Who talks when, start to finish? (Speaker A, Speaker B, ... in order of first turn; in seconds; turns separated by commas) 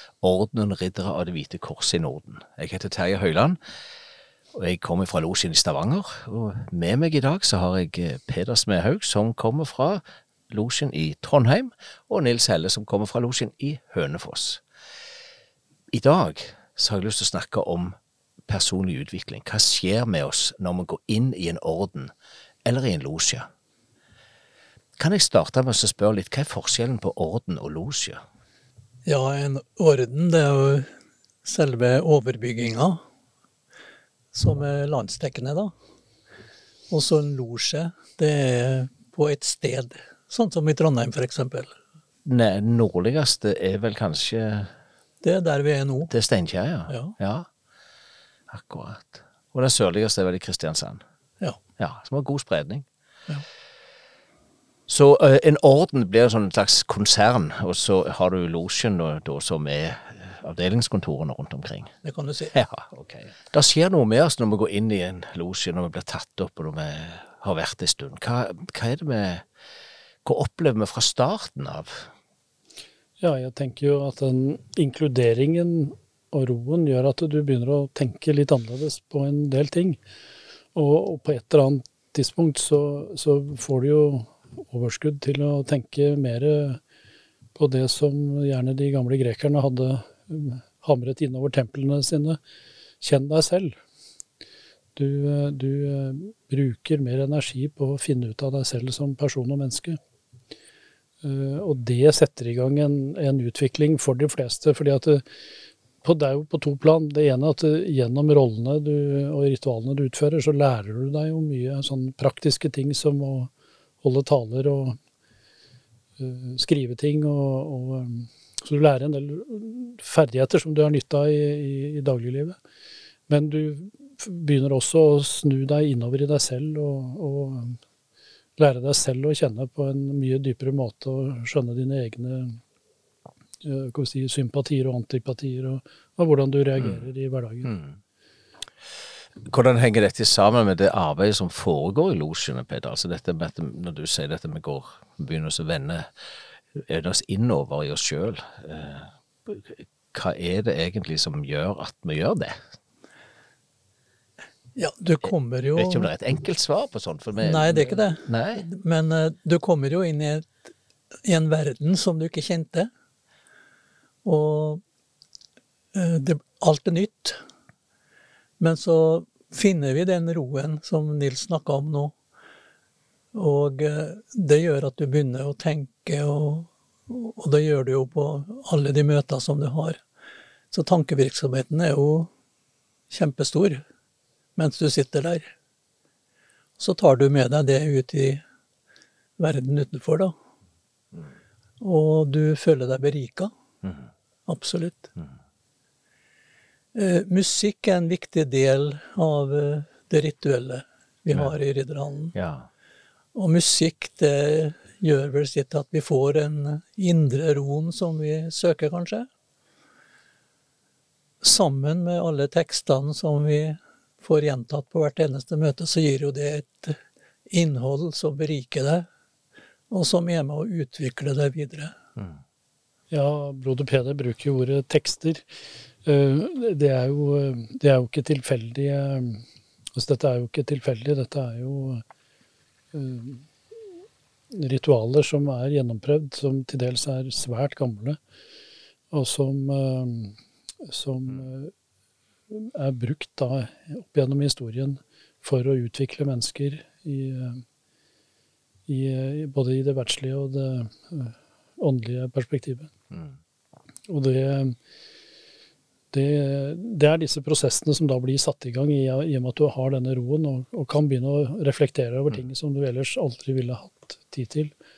Speaker A: 0.2-3.6, Speaker A: 4.5-14.6, Speaker A: 15.9-22.1, Speaker A: 22.6-23.5, Speaker A: 25.0-28.2, Speaker B: 29.1-30.9, Speaker B: 31.4-33.0, Speaker B: 34.3-35.7, Speaker B: 36.9-41.7, Speaker A: 42.2-44.7, Speaker B: 45.2-46.1, Speaker A: 46.1-47.5, Speaker B: 46.9-47.1, Speaker A: 48.5-51.0, Speaker A: 51.8-52.9, Speaker A: 54.9-61.9, Speaker B: 62.0-62.5, Speaker A: 62.5-69.5, Speaker A: 70.2-72.1, Speaker C: 73.2-80.0, Speaker C: 80.7-86.8, Speaker C: 87.5-92.4, Speaker C: 93.0-93.8, Speaker C: 95.0-100.0, Speaker C: 101.2-105.2, Speaker C: 106.0-113.5, Speaker C: 114.0-115.0, Speaker C: 116.2-122.6, Speaker C: 123.3-127.8, Speaker C: 128.6-132.6, Speaker C: 133.6-137.8, Speaker A: 136.8-137.1, Speaker A: 137.6-138.0, Speaker A: 139.4-146.1, Speaker A: 146.7-152.6, Speaker B: 154.8-156.1, Speaker A: 155.8-158.6, Speaker B: 157.4-160.5, Speaker B: 161.2-162.9, Speaker B: 164.2-164.8, Speaker B: 165.9-167.4, Speaker B: 168.6-172.1, Speaker B: 173.3-180.0, Speaker B: 180.7-182.3, Speaker B: 183.1-183.8, Speaker B: 184.6-185.5, Speaker B: 186.8-188.4, Speaker B: 189.4-190.3, Speaker B: 191.8-193.5, Speaker B: 194.5-195.1, Speaker B: 196.9-202.3, Speaker A: 202.3-202.7, Speaker B: 203.3-209.3, Speaker B: 211.4-217.0, Speaker B: 217.5-219.1, Speaker B: 219.9-221.9, Speaker C: 223.1-225.4, Speaker C: 226.0-229.4, Speaker C: 229.9-232.0, Speaker C: 232.9-233.5, Speaker C: 234.5-238.2, Speaker C: 239.1-241.7, Speaker C: 242.5-247.6, Speaker C: 248.9-252.9, Speaker C: 254.1-254.8, Speaker C: 256.1-264.7